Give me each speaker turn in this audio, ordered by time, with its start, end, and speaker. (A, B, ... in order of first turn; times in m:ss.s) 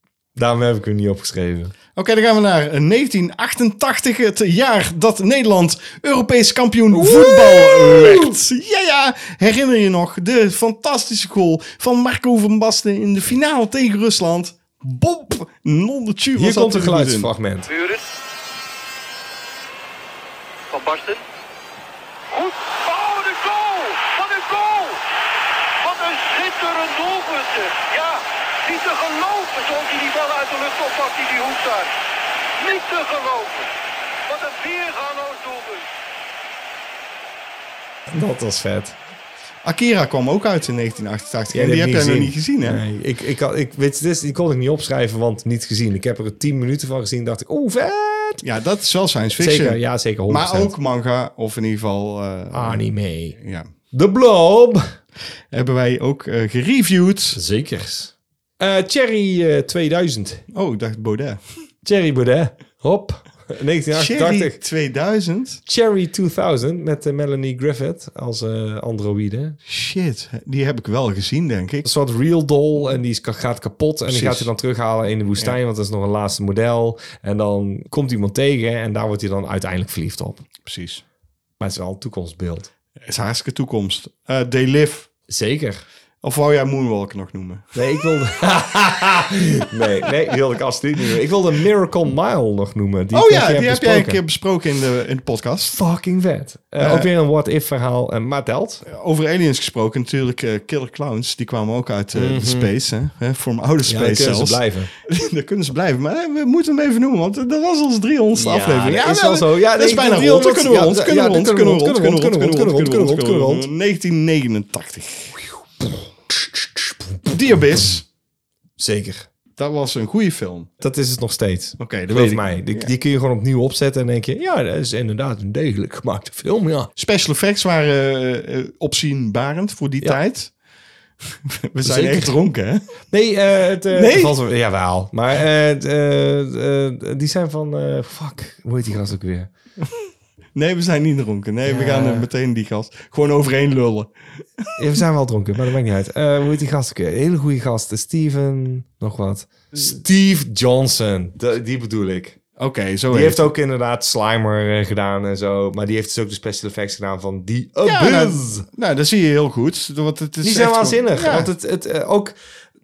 0:00.4-0:01.7 A
0:02.0-0:17.3 B
0:06.9-0:08.4 A
0:16.4-0:17.7 A
0:17.7-0:18.0 C
0:20.7-0:21.2 C
0:22.3-0:25.0 C
0:25.8-0:31.9 C
0:32.6-0:33.7 C
0:34.3-0:35.9 C
0:38.1-0:39.0 A
0:39.6-0:42.8 B
0:41.5-0:48.4 A
0:48.4-0:52.8 B
0:49.4-0:50.7 A
0:52.5-0:53.4 A
0:53.4-0:53.7 B
0:53.9-0:54.9 A
0:55.5-0:57.4 B
0:57.3-1:00.4 A
1:00.5-1:01.4 B
1:01.8-1:04.6 A
1:03.9-1:05.6 B
1:05.7-1:09.6 A
1:09.7-1:11.9 B
1:11.8-1:20.4 A
1:14.1-1:14.5 B
1:20.6-1:21.0 B
1:21.6-1:22.7 A
1:23.0-1:25.1 B
1:25.3-1:25.8 A
1:26.2-1:27.7 B
1:27.8-1:34.2 A
1:33.1-1:35.8 B
1:35.7-1:38.8 A
1:36.8-1:37.1 B
1:38.8-1:55.4 B
1:42.2-1:42.7 A
1:43.9-1:44.9 A
1:48.4-1:53.7 A
1:55.8-1:56.8 A
1:57.3-1:58.0 B
1:58.8-1:59.3 A
1:59.6-2:00.7 B
2:00.8-2:06.9 A
2:01.8-2:02.9 B
2:07.0-2:10.5 B
2:11.2-2:12.8 B
2:11.8-2:12.3 A
2:13.1-2:19.5 A
2:13.9-2:14.4 B
2:20.6-2:24.1 B
2:21.7-2:22.3 A
2:24.8-2:32.4 A
2:32.6-2:33.5 B
2:33.1-2:38.7 A
2:37.8-2:41.5 B
2:40.4-2:42.4 A